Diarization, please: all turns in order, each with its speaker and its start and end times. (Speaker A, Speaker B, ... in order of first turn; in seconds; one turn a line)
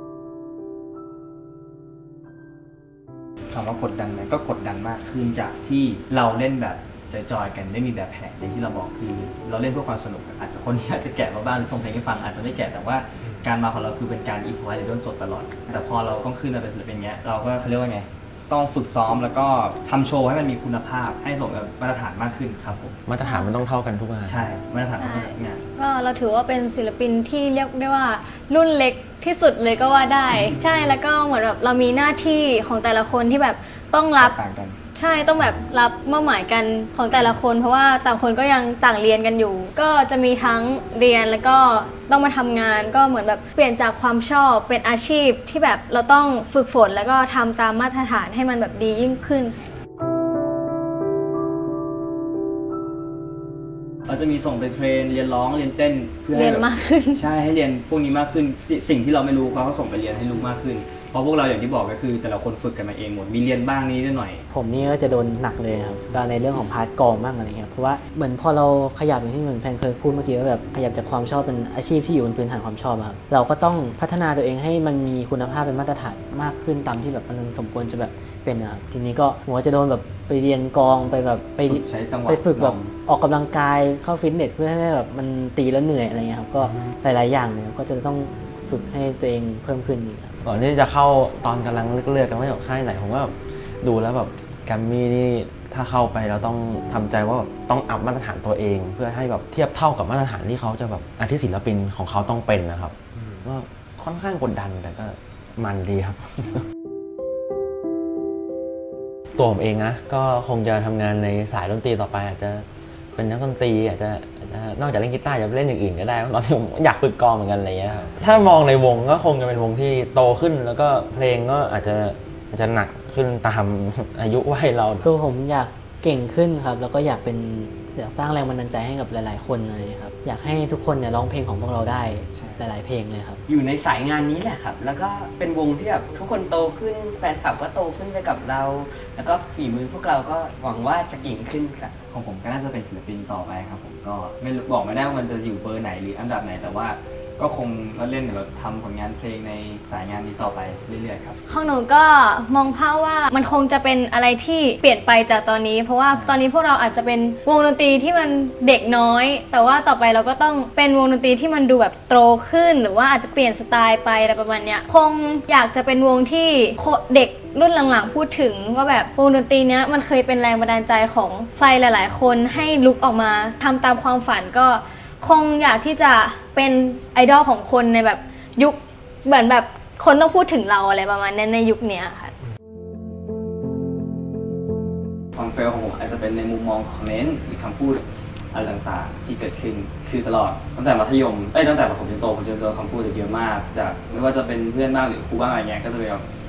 Speaker A: 3.5-22.9
Speaker B: 23.1-24.4
Speaker C: 23.2-23.5
Speaker A: 24.2-25.6
Speaker C: 25.0-34.4
Speaker A: 34.2-34.8
Speaker C: 34.9-49.7
Speaker A: 54.1-64.4
Speaker C: 56.3-57.2
Speaker D: 64.5-90.3
Speaker A: 81.7-82.9
Speaker B: 90.4-106.6
Speaker B: 109.3-125.0
Speaker D: 125.0-133.4
Speaker A: 132.3-132.6
Speaker E: 133.5-141.9
Speaker A: 142.1-151.4
Speaker C: 151.5-182.3
Speaker A: 156.1-156.4
Speaker A: 185.3-196.2